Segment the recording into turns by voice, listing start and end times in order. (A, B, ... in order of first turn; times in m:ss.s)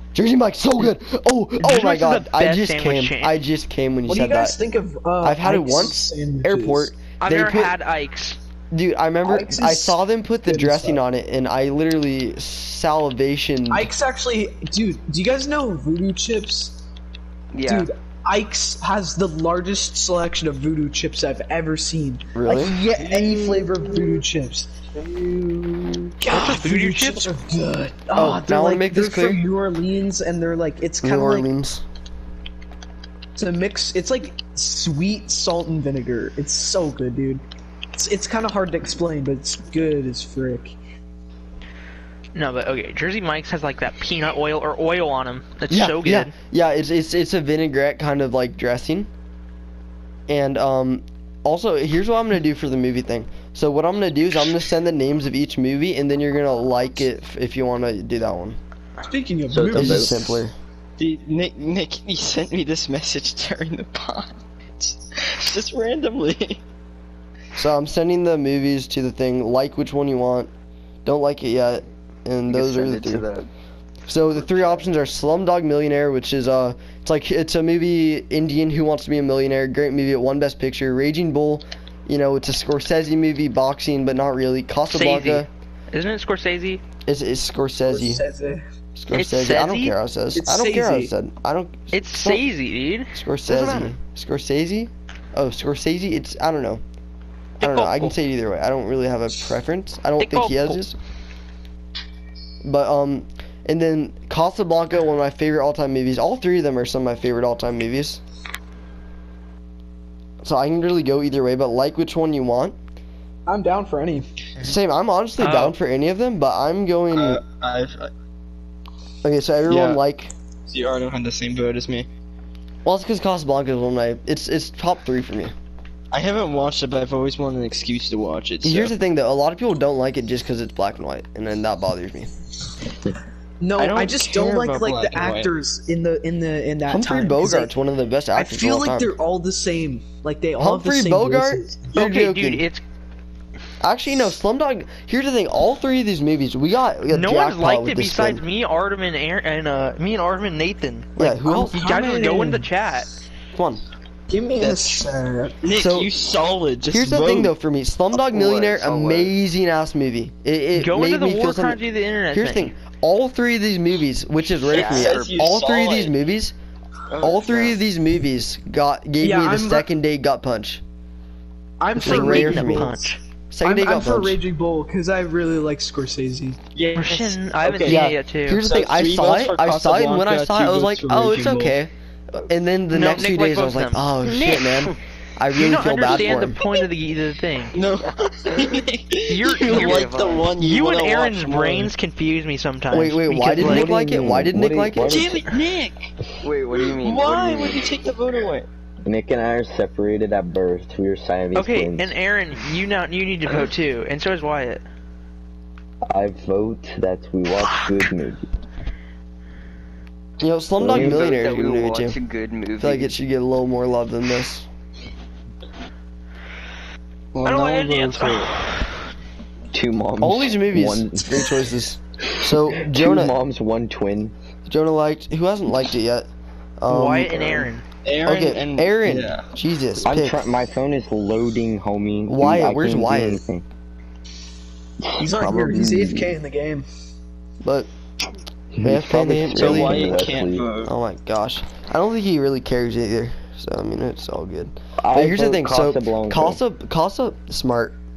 0:00.1-0:04.6 A
0:01.6-0:03.4 B
0:04.1-0:06.9 C
0:05.2-0:07.7 A
0:07.2-0:08.4 B
0:08.7-0:13.9 A
0:09.2-0:11.0 C
0:13.7-0:16.8 C
0:17.5-0:17.9 D
0:17.6-0:24.8 C
0:22.3-0:22.8 A
0:23.0-0:24.2 E
0:26.2-0:31.5 C
0:26.3-0:27.3 B
0:28.1-0:29.4 A
0:31.0-0:31.8 A
0:33.4-0:40.8 C
0:42.3-0:46.3 B
0:45.7-0:49.1 A
0:50.3-0:58.6 A
0:59.0-1:00.2 C
0:59.5-1:00.2 F
0:59.7-1:00.5 A
1:01.0-1:06.6 E
1:07.6-1:10.5 A
1:11.0-1:13.2 A
1:12.5-1:13.5 D
1:14.1-1:25.5 A
1:14.4-1:14.8 D
1:24.9-1:26.8 B
1:27.0-1:28.2 A
1:27.9-1:28.6 C
1:29.0-1:32.4 A
1:29.1-1:29.9 B
1:30.3-1:31.1 C
1:31.9-1:33.1 B
1:33.1-1:36.8 A
1:33.5-1:33.9 D
1:37.6-1:38.1 B
1:37.6-1:40.9 A
1:40.2-1:40.8 B
1:42.6-1:48.2 A
1:50.4-1:52.8 A
1:53.5-1:54.3 C
1:54.6-1:57.4 A
1:55.4-1:55.7 B
1:57.1-1:58.1 E
1:59.2-2:00.3 A
1:59.7-2:00.0 E
2:00.7-2:02.1 E
2:02.8-2:05.5 A
2:06.1-2:08.9 E
2:08.6-2:12.3 A
2:13.6-2:17.7 C
2:13.8-2:15.5 E
2:16.9-2:19.1 A
2:18.3-2:22.0 C
2:20.6-2:22.6 A
2:21.9-2:22.8 B
2:23.8-2:28.4 A
2:27.1-2:33.1 B
2:31.2-2:31.9 A
2:31.4-2:32.7 C
2:33.5-2:33.8 A
2:34.3-2:35.6 C
2:34.6-2:35.0 E
2:35.6-2:37.5 E
2:35.7-2:36.1 A
2:36.8-2:41.8 A
2:38.3-2:39.2 D
2:40.7-2:42.7 B
2:42.3-2:46.5 A
2:44.7-2:46.1 E
2:44.8-2:45.3 D
2:47.1-2:47.8 D
2:47.2-2:50.8 A
2:49.2-2:49.9 C
2:51.8-2:53.1 C
2:52.0-2:53.2 B
2:52.0-2:52.9 A
2:53.5-2:54.4 A
2:53.6-2:56.6 C
2:56.7-3:01.8 E
2:56.9-2:58.6 B
2:57.8-3:06.6 A
3:02.9-3:04.9 B
3:05.6-3:07.8 B
3:07.7-3:11.9 E
3:08.5-3:08.8 D
3:09.3-3:13.9 B
3:09.6-3:10.6 D
3:12.9-3:15.3 A
3:13.6-3:15.4 F
3:15.0-3:16.1 E
3:16.4-3:17.9 D
3:16.8-3:18.7 E
3:19.0-3:22.1 F
3:21.5-3:24.8 B
3:26.1-3:28.4 F
3:30.4-3:32.2 A
3:30.8-3:31.3 F
3:30.9-3:33.1 D
3:32.8-3:34.6 A
3:37.3-3:38.6 E
3:37.4-3:38.8 B
3:39.7-3:41.5 F
3:40.2-3:43.3 A
3:42.7-3:44.3 F
3:44.7-3:46.3 A
3:46.8-3:47.7 A
3:46.9-3:47.8 B
3:48.0-3:49.5 E
3:48.2-3:50.4 A
3:50.0-3:53.6 F
3:52.3-3:53.4 A
3:55.0-3:56.3 F
3:55.2-3:56.8 C
3:57.6-3:57.9 A
3:58.7-4:00.7 F
3:58.8-4:00.2 A
3:59.5-4:00.9 E
4:00.8-4:08.0 A
4:05.0-4:06.6 F